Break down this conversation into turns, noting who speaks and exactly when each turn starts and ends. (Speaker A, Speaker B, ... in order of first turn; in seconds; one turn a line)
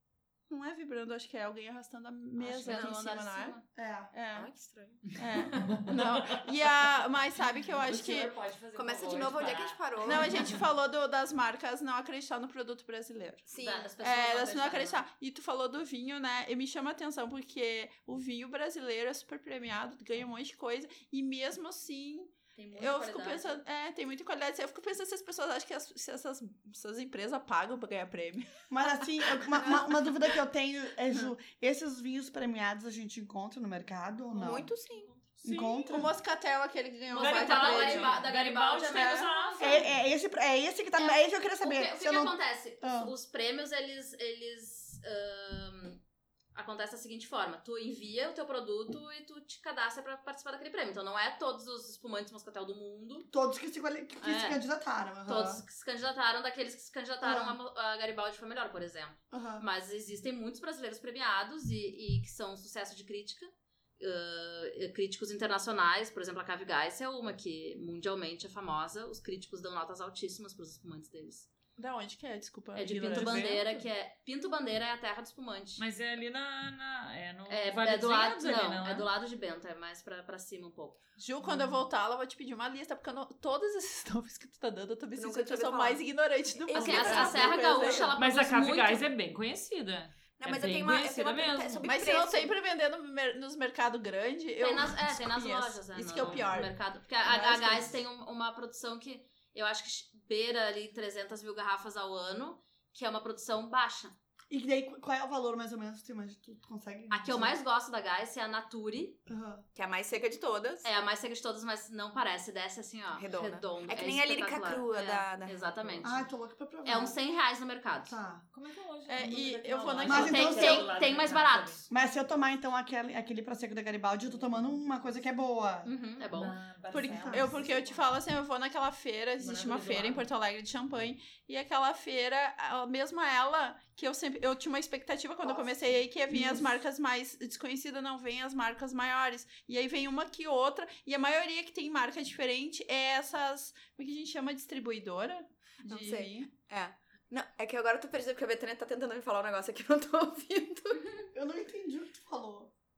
Speaker A: 0.5-3.5
Speaker B: 2.4-3.6
Speaker C: 2.7-2.9
Speaker D: 3.7-4.1
Speaker A: 4.1-4.5
Speaker C: 4.3-5.0
Speaker A: 5.2-8.3
Speaker B: 5.3-5.9
Speaker E: 5.7-6.2
Speaker E: 7.8-10.6
Speaker C: 8.7-10.5
Speaker A: 10.0-13.5
Speaker C: 13.4-13.9
Speaker B: 13.6-15.0
Speaker A: 14.0-28.6
Speaker B: 22.5-23.6
Speaker D: 28.7-34.7
Speaker A: 29.2-30.1
Speaker C: 34.3-35.1
Speaker E: 35.4-36.0
Speaker D: 35.4-36.1
Speaker A: 35.9-38.2
Speaker E: 37.1-39.9
Speaker B: 37.1-39.9
Speaker D: 39.6-43.1
Speaker B: 41.0-46.0
Speaker B: 46.5-53.3
Speaker D: 53.3-55.6
Speaker B: 54.2-54.6
Speaker B: 55.2-71.5
Speaker D: 57.2-57.6
Speaker D: 59.3-59.6
Speaker A: 71.8-73.6
Speaker B: 72.7-75.8
Speaker E: 73.1-73.7
Speaker E: 75.8-79.1
Speaker B: 77.5-81.0
Speaker A: 81.2-88.2
Speaker C: 85.2-86.0
Speaker C: 86.5-88.1
Speaker B: 86.7-89.0
Speaker E: 86.9-87.2
Speaker E: 88.2-91.9
Speaker C: 90.4-92.5
Speaker A: 91.8-98.0
Speaker B: 94.6-104.1
Speaker E: 96.2-96.5
Speaker D: 104.5-107.6
Speaker B: 107.1-109.2
Speaker D: 109.3-109.6
Speaker C: 109.7-110.9
Speaker B: 110.8-116.2
Speaker C: 113.1-116.0
Speaker D: 116.0-117.2
Speaker B: 116.8-118.2
Speaker D: 118.1-118.4
Speaker E: 118.5-121.8
Speaker A: 119.1-120.8
Speaker D: 120.0-120.9
Speaker B: 120.1-121.9
Speaker D: 121.9-125.9
Speaker E: 124.3-125.2
Speaker B: 125.8-126.5
Speaker E: 126.3-128.1
Speaker A: 126.9-146.5
Speaker D: 127.0-127.5
Speaker E: 129.4-130.2
Speaker C: 135.4-135.9
Speaker D: 136.3-136.6
Speaker C: 145.9-151.1
Speaker D: 151.3-152.7